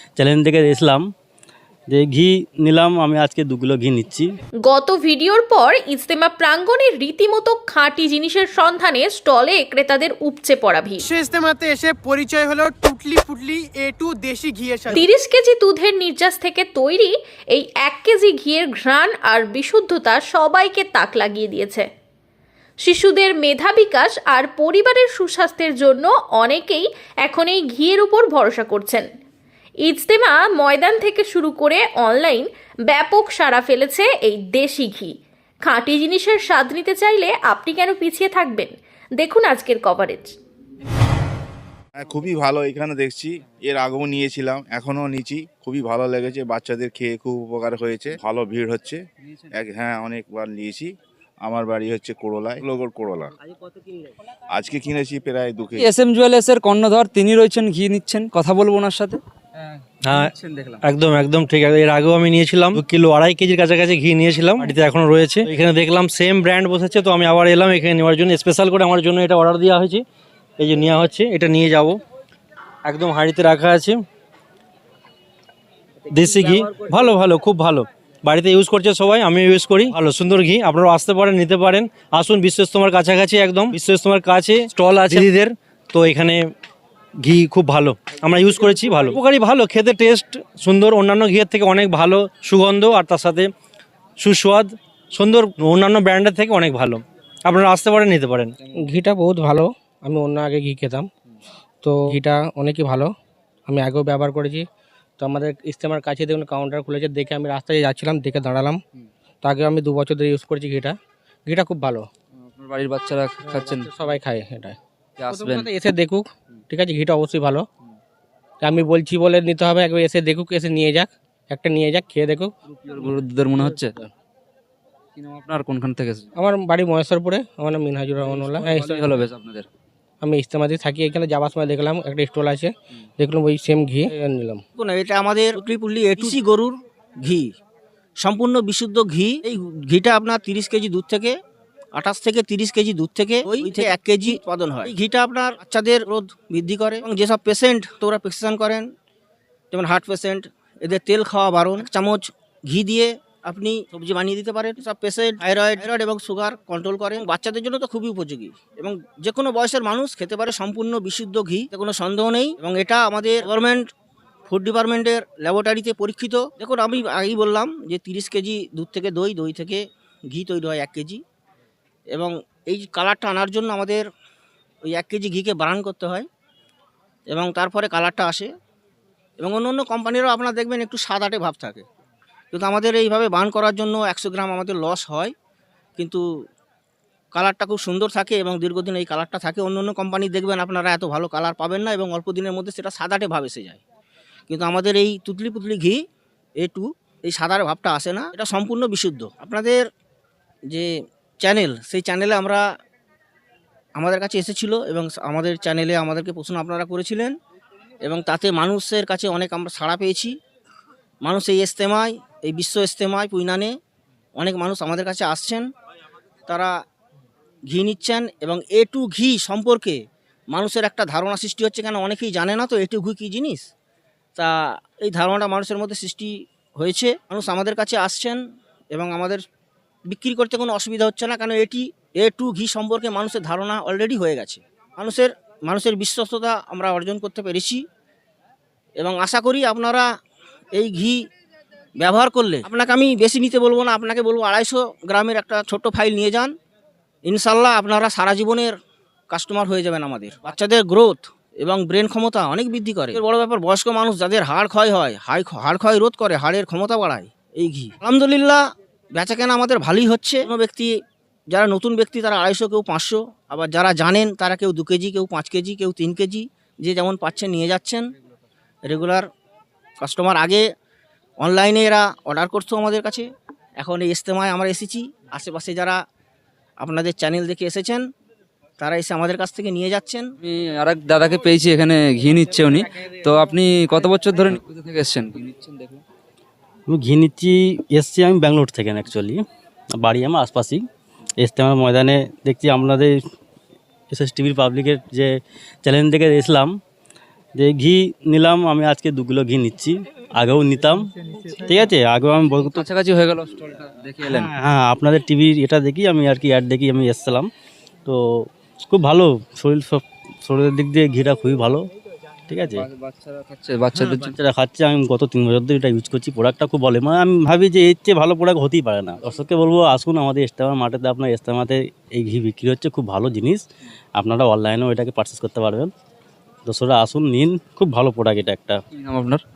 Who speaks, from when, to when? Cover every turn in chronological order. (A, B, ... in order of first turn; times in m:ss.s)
0:00.2-0:01.0 A
0:01.9-0:04.3 A
0:04.6-0:11.1 B
0:11.0-0:15.0 C
0:14.9-0:21.9 B
0:22.8-0:29.0 B
0:29.8-0:35.1 B
0:35.6-0:40.3 B
0:42.0-0:50.9 D
0:51.4-0:53.3 D
0:54.5-0:55.9 D
0:55.8-1:00.8 E
1:00.0-1:00.3 F
1:00.8-1:10.0 F
1:10.6-1:12.0 F
1:12.8-1:14.0 F
1:16.1-1:26.5 F
1:27.2-1:33.5 F
1:34.2-1:38.5 F
1:38.7-1:41.1 G
1:41.8-1:43.1 G
1:43.7-1:44.6 G
1:45.2-1:48.8 G
1:49.4-1:52.0 G
1:52.4-1:53.9 E
1:53.4-1:54.8 G
1:55.2-1:55.7 E
1:55.3-1:57.7 G
1:58.6-2:02.5 G
2:02.8-2:03.9 E
2:03.6-2:04.1 G
2:05.2-2:06.3 E
2:06.4-2:09.1 G
2:08.2-2:09.7 E
2:10.2-2:14.6 G
2:14.8-2:17.5 H
2:18.2-2:21.3 H
2:21.9-2:28.9 H
2:29.7-2:43.9 H
2:44.5-2:51.2 H
2:52.1-2:54.0 H
2:54.8-2:56.2 H
2:57.3-2:58.5 H
2:59.4-3:01.8 H
3:02.5-3:05.3 H
3:06.0-3:06.2 H
3:07.3-3:13.8 H
3:14.5-3:16.0 H
3:16.6-3:19.8 H
3:20.7-3:22.6 H
3:24.0-3:27.3 H
3:28.0-3:30.3 H
3:31.2-3:33.8 H
3:34.4-3:35.7 H
3:36.5-3:36.7 H
3:37.7-3:40.0 H
3:40.5-3:43.7 H
3:44.4-3:48.4 H
3:48.9-3:49.4 H
3:50.1-3:57.8 H
3:59.0-4:00.1 H
4:00.7-4:01.2 H
4:02.0-4:06.5 H
4:07.2-4:08.7 H
4:09.3-4:18.6 H
4:19.1-4:20.9 H
4:21.5-4:28.1 H
4:28.9-4:29.3 H
4:30.0-4:30.6 H
4:31.4-4:33.3 H
4:33.8-4:36.0 H
4:36.8-4:38.1 H
4:38.8-4:40.2 H
4:40.4-4:46.0 E
4:46.9-4:49.4 A
4:50.0-4:50.8 A
4:51.4-4:53.1 A
4:54.1-4:56.8 A
4:57.6-5:02.9 A
5:02.6-5:04.5 E
5:04.2-5:07.5 A
5:08.1-5:11.8 A
5:12.5-5:12.9 A
5:12.7-5:14.3 E
5:14.2-5:23.6 A
5:24.2-5:25.9 A
5:26.7-5:28.8 A
5:28.9-5:29.4 E